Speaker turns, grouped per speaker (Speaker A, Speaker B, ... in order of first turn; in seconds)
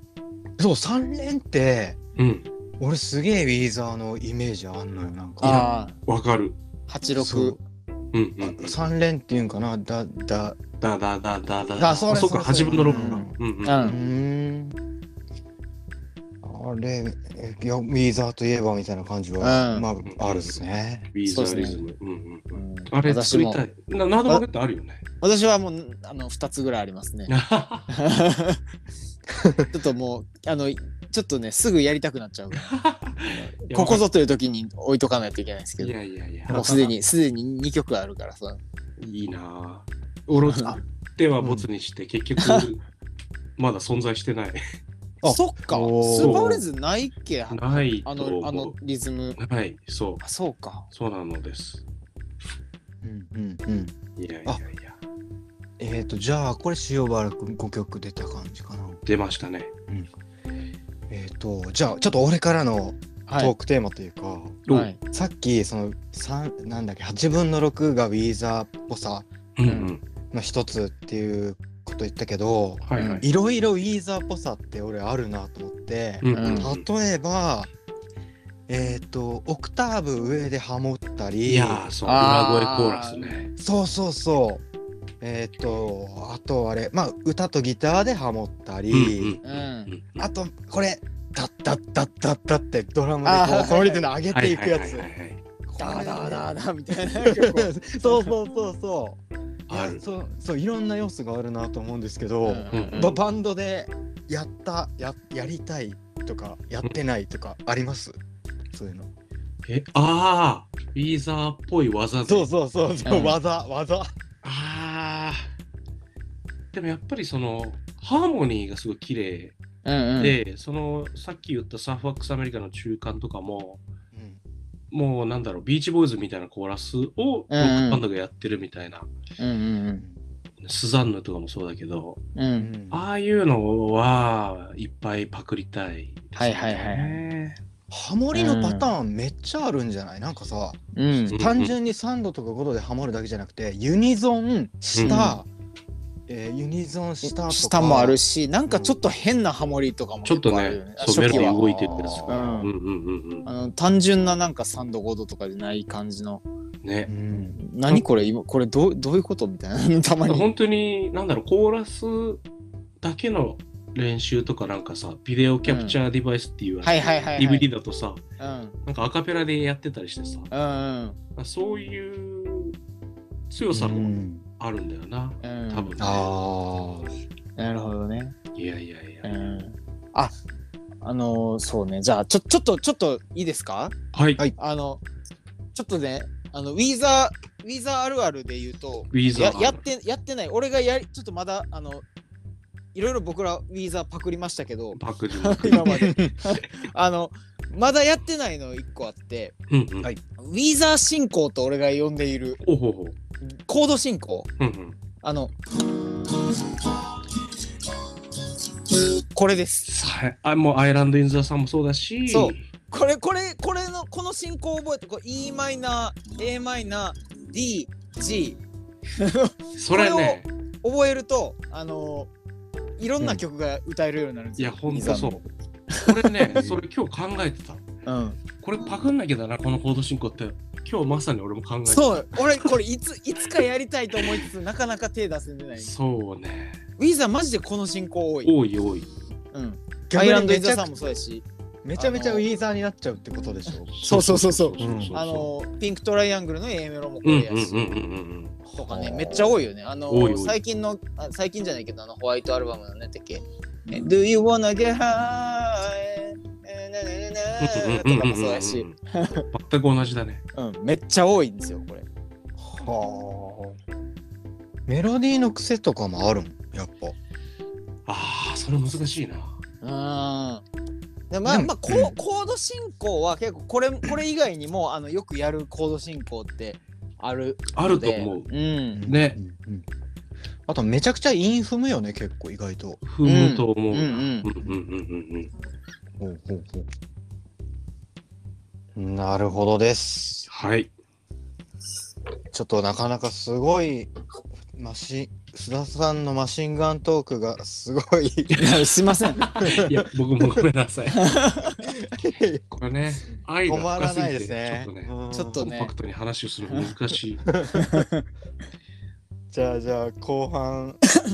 Speaker A: 0.6-2.0, 2.8-5.7, 7.1-7.6, 8.4-10.6, 11.8-14.8, 16.4-21.1, 29.3-29.7, 36.5-36.8, 41.4-41.7, 45.2-46.6, 53.0-54.6, 55.8-59.0, 61.1-69.3, 70.3-77.7, 78.7-81.9, 83.6-84.6, 85.2-89.4, 90.2-95.1, 95.6-96.5, 97.2-108.2, 108.7-109.1, 112.2-114.1, 124.1-124.4, 132.6-133.1, 137.9-145.5, 146.3-149.0, 151.1-152.6, 157.1-157.6, 173.7-174.4, 176.0-177.1, 195.7-196.4, 240.1-241.0, 241.8-243.9, 244.8-245.2, 248.7-249.7, 262.6-263.8, 264.9-267.1, 271.4-272.2, 279.0-279.9, 280.7-283.0, 286.2-286.9, 288.9-290.5, 292.5-294.1, 294.7-300.6, 301.8-302.6, 303.3-305.7, 307.4-308.1, 309.5-311.0
Speaker B: 2.1-2.5, 5.4-6.6, 8.1-8.8, 10.8-14.0, 20.1-20.5, 21.1-25.0, 27.3-27.9, 32.7-34.1, 35.8-36.9, 39.0-42.8, 43.6-44.6, 46.1-46.6, 47.5-48.7, 49.4-50.2, 50.9-51.8, 54.2-55.0, 59.0-59.7, 69.6-70.0, 72.9-73.2, 76.2-76.9, 81.4-83.5, 88.9-90.3, 94.3-95.4, 99.7-100.0, 102.7-103.1, 109.7-112.5, 114.4-115.5, 116.7-119.6, 120.2-123.8, 124.9-129.1, 130.6-132.2, 132.9-137.6, 141.3-141.7, 144.9-145.2, 150.2-153.4, 156.8-157.1, 160.3-162.4, 163.0-168.2, 168.9-170.5, 171.4-172.8, 173.5-176.3, 178.5-179.3, 184.1-184.4, 189.1-189.8, 194.9-196.1, 199.7-200.1, 202.6-203.2, 204.6-205.0, 209.9-212.6, 219.8-220.5, 224.6-225.4, 226.0-227.8, 228.6-232.8, 234.2-234.4, 235.8-236.8, 238.4-239.1, 243.9-245.5, 247.2-248.6, 250.1-250.6, 257.6-258.9, 259.5-260.4, 268.1-269.6, 277.7-278.5, 279.1-279.4, 283.0-285.5, 290.5-290.9, 299.4-301.3, 302.7-307.5
Speaker C: 5.4-6.0, 6.9-7.6, 11.8-14.0, 19.4-19.9, 21.2-21.8, 22.5-23.6, 25.2-27.3, 27.9-28.6, 29.7-35.9, 36.5-38.6, 40.3-40.8, 42.4-42.7, 45.2-49.4, 50.2-50.9, 63.3-63.5, 64.7-65.0, 69.7-69.9, 73.0-73.2, 76.3-76.7, 82.0-83.5, 89.4-89.9, 93.2-94.0, 95.8-98.4, 102.4-103.2, 113.1-113.4, 119.8-120.4, 127.5-128.0, 129.4-130.0, 132.3-132.7, 136.4-137.2, 138.3-138.9, 140.9-141.3, 145.0-145.4, 147.2-151.6, 152.2-152.7, 153.4-156.4, 157.3-160.5, 165.7-166.0, 166.8-167.7, 168.4-168.8, 170.5-171.2, 175.4-175.9, 177.6-178.4, 179.2-180.3, 181.0-183.9, 184.6-185.0, 185.7-192.0, 192.9-199.5, 200.4-202.6, 203.4-204.5, 205.2-205.5, 209.3-209.9, 212.3-218.6, 219.2-222.3, 223.0-226.7, 228.1-228.4, 231.9-235.9, 237.0-238.5, 239.5-241.4, 242.0-242.4, 244.0-248.0, 248.7-259.5, 260.5-262.0, 269.8-270.6, 271.3-279.0, 283.2-284.5, 298.5-299.4, 301.1-301.9, 305.3-305.9, 307.7-308.2